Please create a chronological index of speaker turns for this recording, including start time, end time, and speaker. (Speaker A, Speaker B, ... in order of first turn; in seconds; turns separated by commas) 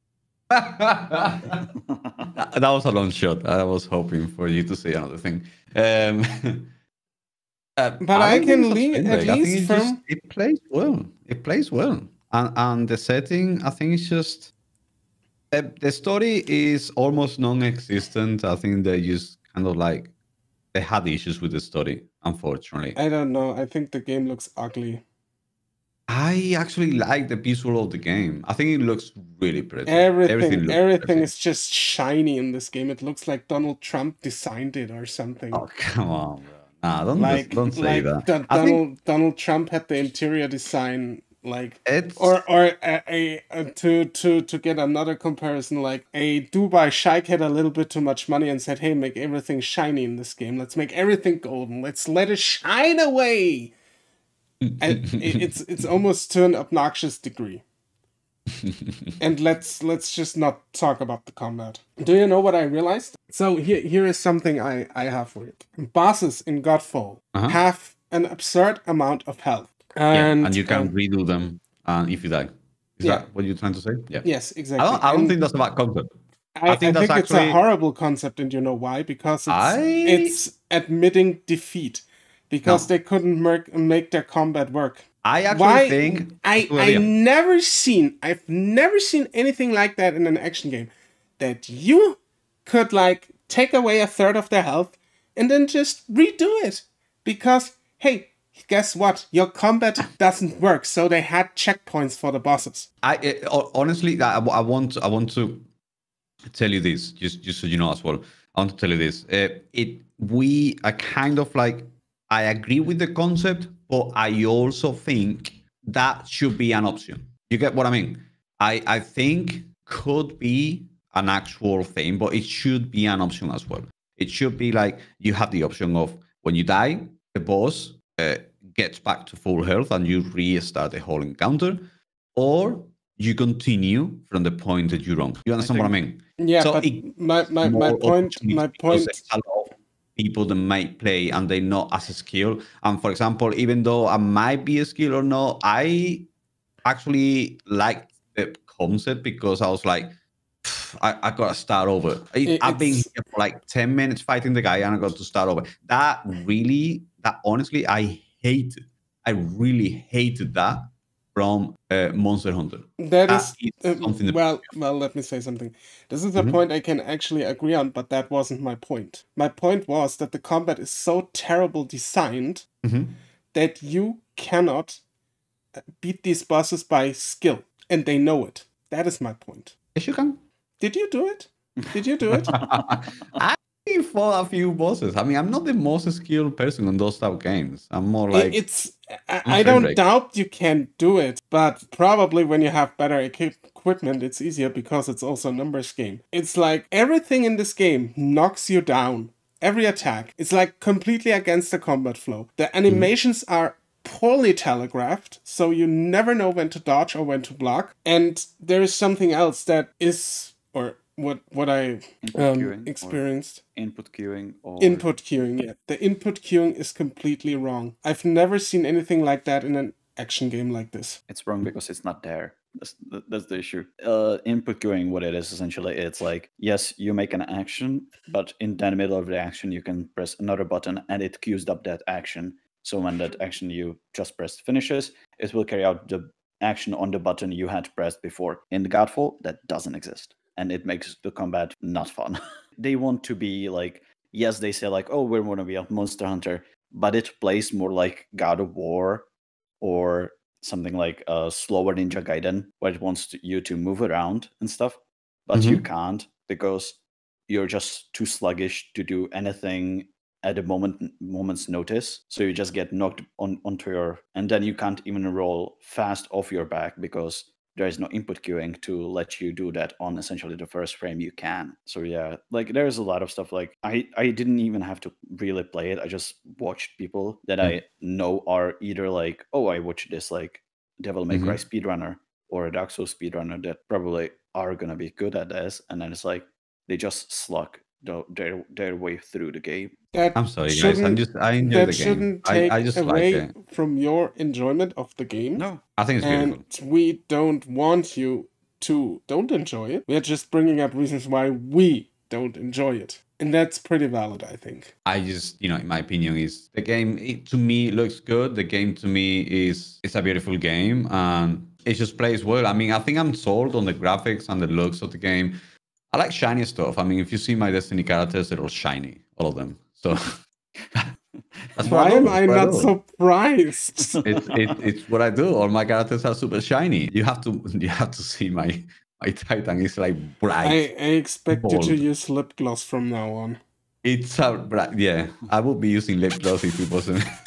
Speaker A: 0.5-1.7, Speaker B: 1.9-2.2, Speaker A: 2.4-6.7, Speaker A: 7.8-14.5, Speaker C: 8.0-10.0, Speaker A: 15.5-20.1, Speaker A: 20.7-23.0, Speaker C: 22.9-25.0, Speaker A: 26.1-31.3, Speaker C: 29.9-35.6, Speaker A: 35.5-38.8, Speaker C: 37.2-53.7, Speaker A: 41.9-42.4, Speaker C: 54.8-57.6, Speaker A: 55.0-55.5, Speaker A: 58.6-59.1, Speaker C: 59.2-70.9, Speaker A: 70.1-74.3, Speaker C: 74.2-75.4, Speaker A: 74.8-76.1, Speaker C: 76.6-102.9, Speaker A: 76.7-77.6, Speaker A: 79.5-80.4, Speaker A: 82.6-82.9, Speaker A: 85.2-87.1, Speaker A: 103.0-105.7, Speaker A: 106.5-146.3, Speaker B: 135.6-136.0, Speaker C: 136.4-139.2, Speaker A: 146.8-164.4, Speaker C: 152.5-153.1, Speaker C: 163.0-172.7, Speaker A: 172.8-173.2, Speaker C: 173.5-175.0, Speaker C: 176.0-179.7, Speaker A: 179.9-180.4, Speaker C: 180.8-182.5, Speaker B: 182.4-182.8, Speaker A: 182.5-188.6, Speaker C: 188.3-213.6, Speaker A: 189.4-190.0, Speaker B: 212.2-213.2, Speaker B: 213.8-215.1, Speaker C: 214.8-221.2, Speaker B: 221.3-249.3, Speaker B: 249.8-257.0, Speaker A: 255.5-255.8, Speaker B: 257.5-289.9, Speaker A: 281.3-281.6, Speaker C: 290.1-295.6, Speaker A: 290.4-293.5, Speaker B: 295.6-295.8, Speaker A: 296.0-296.6, Speaker C: 296.2-304.9, Speaker A: 305.1-315.6, Speaker A: 316.1-320.3, Speaker A: 321.8-322.9, Speaker C: 321.8-324.2, Speaker B: 324.2-324.5, Speaker A: 324.2-330.9, Speaker C: 330.6-333.6, Speaker A: 331.5-332.1, Speaker A: 334.0-337.2